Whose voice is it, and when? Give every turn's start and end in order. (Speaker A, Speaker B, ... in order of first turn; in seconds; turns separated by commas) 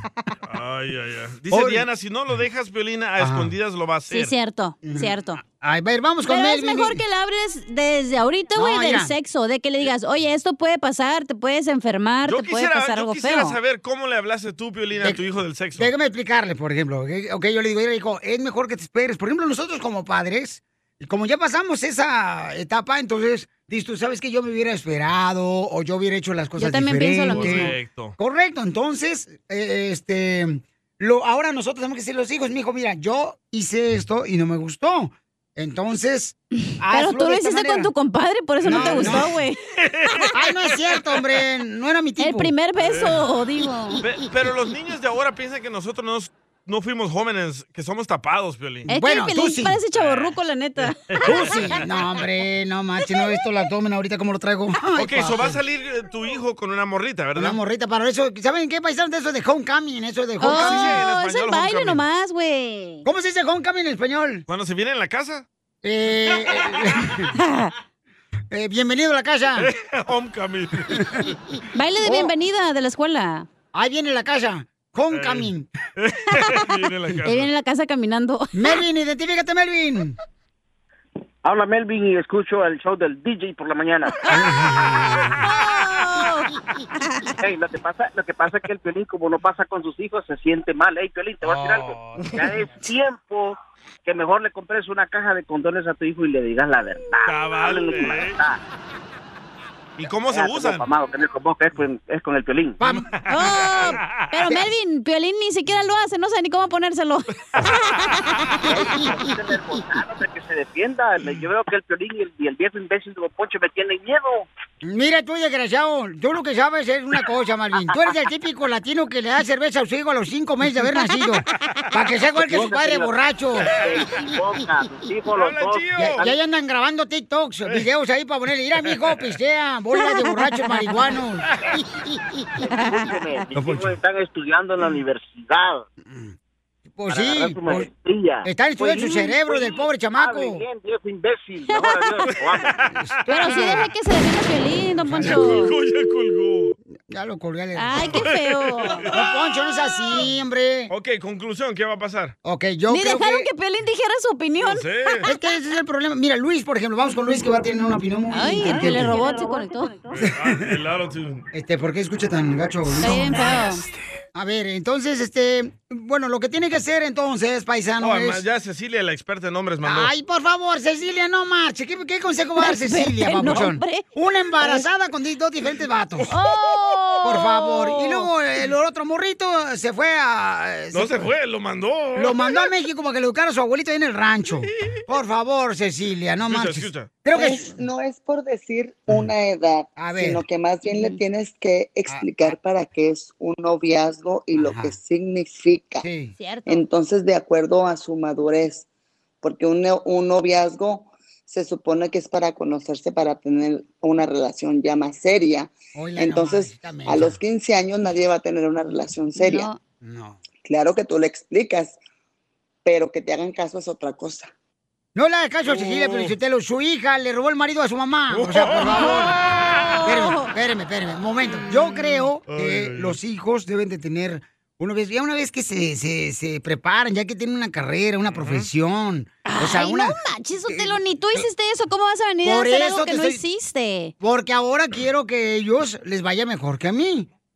Speaker A: 0.5-4.3, Speaker B: 1.5-1.9, Speaker B: 3.2-3.5, Speaker C: 4.1-5.4, Speaker B: 4.8-7.0, Speaker C: 6.3-13.6, Speaker B: 8.5-9.1, Speaker A: 12.2-15.9, Speaker B: 15.8-37.9, Speaker C: 26.6-27.8, Speaker A: 27.3-28.1, Speaker C: 36.8-39.6, Speaker B: 38.6-39.3, Speaker A: 38.7-39.2, Speaker A: 39.8-40.4, Speaker B: 40.3-42.5, Speaker C: 42.2-44.0, Speaker A: 42.8-43.2, Speaker A: 44.0-48.9, Speaker B: 48.9-49.8, Speaker C: 48.9-51.7, Speaker A: 49.9-50.3, Speaker A: 50.9-51.9, Speaker B: 51.2-55.6, Speaker A: 55.0-57.6, Speaker B: 57.4-61.0, Speaker C: 60.4-63.0, Speaker A: 60.4-62.0, Speaker B: 63.0-64.5, Speaker A: 64.5-65.5, Speaker B: 65.8-67.3, Speaker C: 67.3-67.7, Speaker B: 68.5-69.7, Speaker A: 69.6-71.3, Speaker B: 71.0-71.3, Speaker C: 71.7-73.5, Speaker B: 72.0-72.3, Speaker B: 73.7-75.7, Speaker A: 75.1-77.5, Speaker C: 76.4-78.7, Speaker B: 78.5-80.2, Speaker D: 81.5-84.2, Speaker C: 84.2-84.5, Speaker C: 85.3-87.3, Speaker D: 87.4-98.6, Speaker A: 91.5-92.3, Speaker A: 97.2-98.4, Speaker A: 100.0-100.9, Speaker D: 100.3-102.8, Speaker B: 102.8-103.1, Speaker C: 103.3-108.9, Speaker D: 108.7-114.5, Speaker B: 114.8-123.8, Speaker D: 122.4-123.1, Speaker D: 123.7-126.3, Speaker A: 125.3-126.3, Speaker B: 126.0-131.5, Speaker C: 130.0-131.1, Speaker D: 132.6-135.8, Speaker C: 132.7-133.4, Speaker B: 133.6-133.9, Speaker B: 136.1-136.3, Speaker B: 136.9-137.9, Speaker D: 137.1-142.7, Speaker B: 138.4-140.6, Speaker C: 141.7-142.1, Speaker A: 142.3-143.1, Speaker B: 143.1-143.8, Speaker C: 143.3-145.7, Speaker B: 145.1-145.5, Speaker A: 145.2-146.8, Speaker B: 147.1-148.2, Speaker C: 147.8-149.1, Speaker B: 149.0-150.9, Speaker A: 150.9-152.3, Speaker B: 152.4-153.5, Speaker C: 152.9-154.9, Speaker A: 154.6-155.3, Speaker B: 155.2-159.2, Speaker C: 158.3-159.9, Speaker A: 160.1-161.5, Speaker B: 160.2-160.6, Speaker B: 161.5-163.5, Speaker C: 163.0-163.8, Speaker B: 164.3-168.4, Speaker A: 168.0-170.1, Speaker B: 169.8-176.3, Speaker C: 172.6-174.1, Speaker C: 174.6-174.9, Speaker C: 176.3-178.3, Speaker B: 177.2-181.3, Speaker A: 180.9-182.6, Speaker B: 182.2-187.7, Speaker A: 186.5-187.2, Speaker E: 187.3-196.1, Speaker B: 190.0-190.4, Speaker C: 190.9-191.2, Speaker B: 192.1-192.6, Speaker B: 194.6-195.0, Speaker B: 196.0-196.3, Speaker C: 196.4-196.8, Speaker E: 196.7-198.9, Speaker E: 199.4-209.7, Speaker B: 205.9-207.4, Speaker C: 209.4-209.8, Speaker B: 210.0-210.4, Speaker E: 210.6-212.0, Speaker E: 212.8-214.5, Speaker B: 215.2-219.4, Speaker A: 215.7-216.3, Speaker A: 218.3-219.3, Speaker C: 218.9-220.5, Speaker B: 220.1-230.2, Speaker A: 222.5-223.2, Speaker A: 228.3-228.7, Speaker C: 229.4-234.1, Speaker B: 230.7-231.4, Speaker B: 232.4-233.4, Speaker B: 234.2-237.3